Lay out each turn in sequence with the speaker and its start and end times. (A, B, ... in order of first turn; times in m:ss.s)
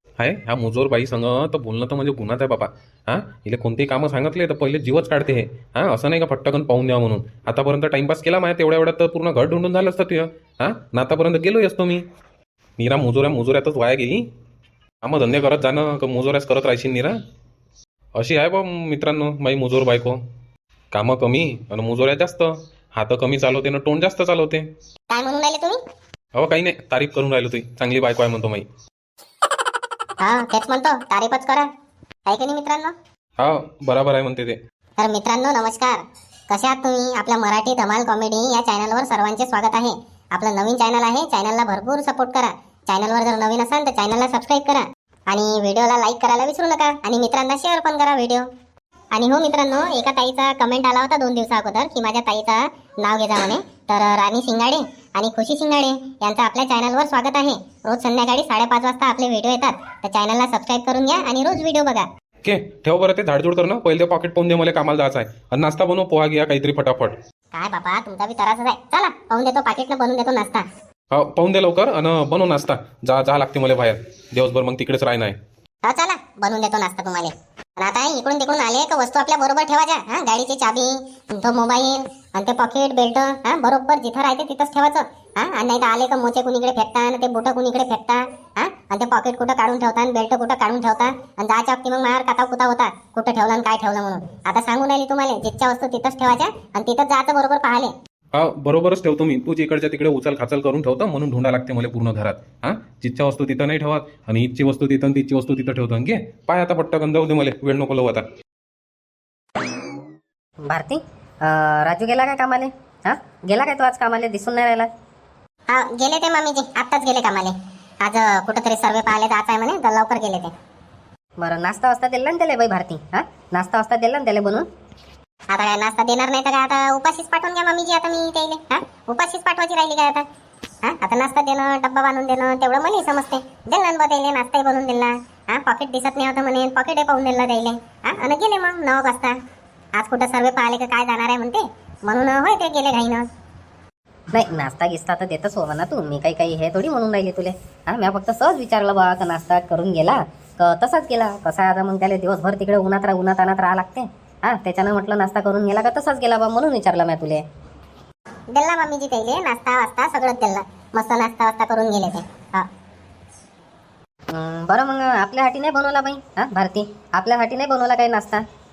0:00.2-0:12.0 A
0:12.8-0:14.2 A
0:15.0-0:17.1 A
0:18.2-0:20.2 A
0:20.9-0:24.7 A
0:25.1-0:25.8 B
0:26.3-0:28.6 A
0:30.2-0:31.7 B
0:32.3-0:32.9 B
0:33.4-0:34.6 A
0:35.0-0:48.4 B
0:49.1-1:02.0 B
1:02.4-1:07.2 A
1:07.5-1:10.6 B
1:11.1-1:15.4 A
1:15.8-1:37.9 B
1:38.3-1:48.2 A
1:50.6-1:54.9 C
1:55.7-2:00.5 B
2:01.4-2:04.6 C
2:05.5-2:10.2 B
2:10.8-2:19.3 B
2:20.0-2:23.3 B
2:24.3-2:37.4 C
2:38.5-2:42.7 B
2:44.3-2:48.4 C